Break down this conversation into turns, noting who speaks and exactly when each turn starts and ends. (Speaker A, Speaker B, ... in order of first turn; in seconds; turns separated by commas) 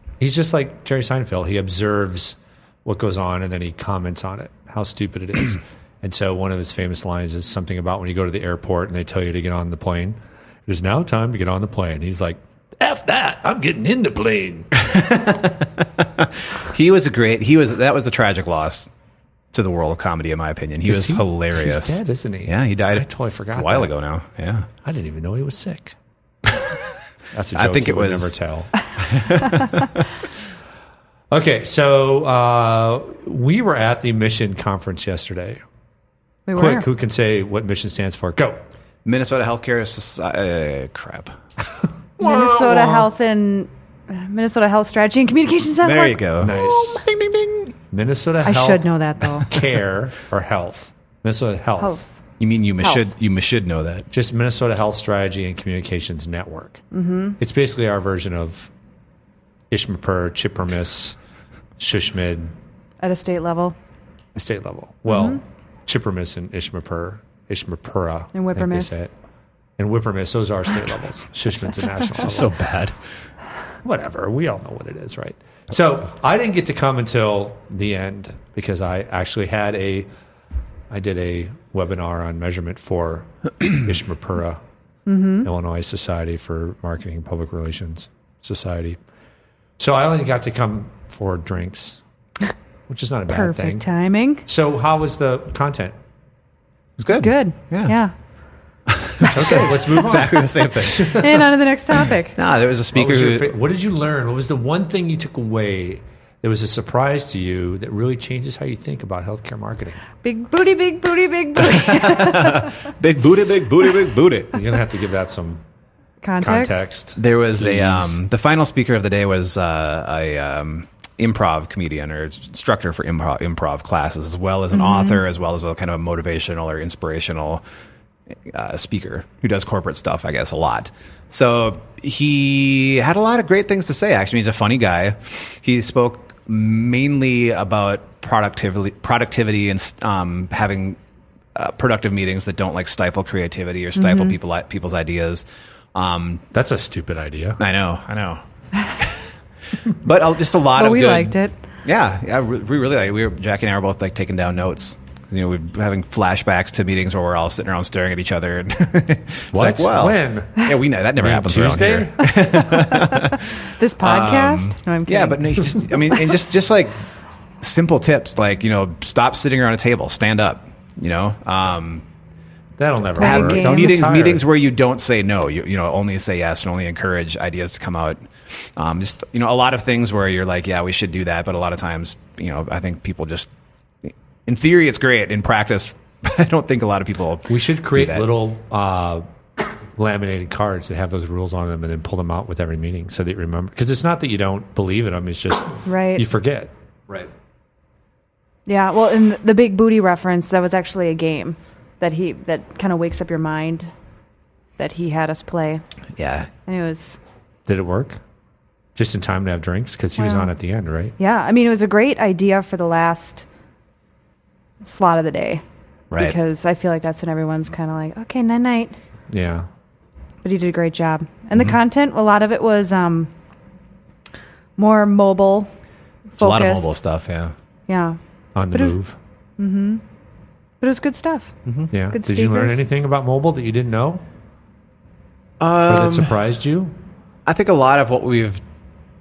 Speaker A: 0.2-14.8, Speaker B: 14.8-18.9, Speaker B: 19.5-24.7, Speaker A: 20.9-23.9, Speaker A: 24.8-26.0, Speaker B: 26.5-26.8, Speaker A: 27.3-28.8, Speaker B: 27.6-30.0, Speaker A: 31.3-35.6, Speaker C: 36.5-36.9, Speaker A: 36.5-38.6, Speaker B: 39.0-41.4, Speaker A: 42.2-43.1, Speaker C: 42.2-46.6, Speaker B: 45.8-47.7, Speaker A: 46.4-47.0, Speaker A: 47.9-48.9, Speaker C: 48.4-49.5, Speaker A: 49.4-52.0, Speaker C: 51.8-52.1, Speaker B: 52.4-54.1, Speaker A: 54.1-56.8, Speaker C: 56.9-57.4, Speaker A: 57.4-58.7, Speaker A: 59.7-61.2, Speaker A: 61.8-62.5, Speaker C: 63.0-63.8, Speaker A: 64.3-69.1, Speaker C: 65.1-65.4, Speaker C: 68.3-68.9, Speaker A: 69.8-72.5, Speaker B: 72.1-73.0, Speaker A: 73.8-80.1, Speaker A: 80.9-84.6, Speaker C: 85.1-85.5, Speaker A: 85.4-89.0, Speaker A: 89.8-92.0, Speaker A: 92.9-93.9, Speaker C: 93.3-94.4, Speaker A: 94.5-96.0, Speaker B: 97.0-98.0, Speaker C: 97.1-98.1, Speaker B: 98.9-101.3, Speaker C: 99.2-99.7, Speaker A: 99.3-101.4, Speaker C: 101.1-102.4, Speaker B: 102.0-103.5, Speaker A: 102.9-110.0, Speaker C: 110.2-112.8, Speaker B: 111.6-114.6, Speaker A: 114.5-115.6, Speaker C: 116.2-116.8, Speaker A: 116.4-118.2, Speaker B: 117.2-127.6, Speaker C: 124.7-125.2, Speaker B: 128.5-141.0, Speaker B: 141.6-146.4, Speaker C: 144.0-144.3, Speaker A: 146.5-147.6, Speaker B: 147.6-148.4, Speaker B: 149.0-167.0, Speaker C: 150.8-151.5, Speaker A: 159.5-162.9, Speaker C: 162.7-166.2, Speaker B: 167.6-172.1, Speaker A: 172.8-174.4, Speaker C: 173.2-174.0, Speaker B: 173.2-183.5, Speaker B: 184.0-188.3, Speaker A: 187.5-189.2, Speaker A: 190.0-196.7, Speaker C: 195.9-196.2, Speaker C: 198.7-203.9, Speaker C: 204.8-205.8, Speaker B: 206.2-206.5, Speaker C: 206.7-207.2, Speaker A: 207.7-208.2, Speaker A: 209.0-211.2, Speaker C: 210.2-210.5, Speaker C: 211.2-213.5, Speaker C: 214.8-215.6, Speaker B: 216.1-216.4, Speaker C: 216.2-219.0, Speaker A: 219.3-219.7, Speaker C: 220.4-223.3, Speaker C: 224.8-225.7, Speaker C: 226.4-226.9, Speaker B: 226.4-227.5, Speaker C: 227.9-228.2, Speaker A: 228.6-229.2, Speaker C: 229.6-230.0, Speaker C: 230.8-231.6, Speaker A: 231.9-234.2, Speaker C: 232.1-232.8, Speaker B: 235.6-236.4, Speaker A: 235.9-236.9, Speaker B: 237.5-238.6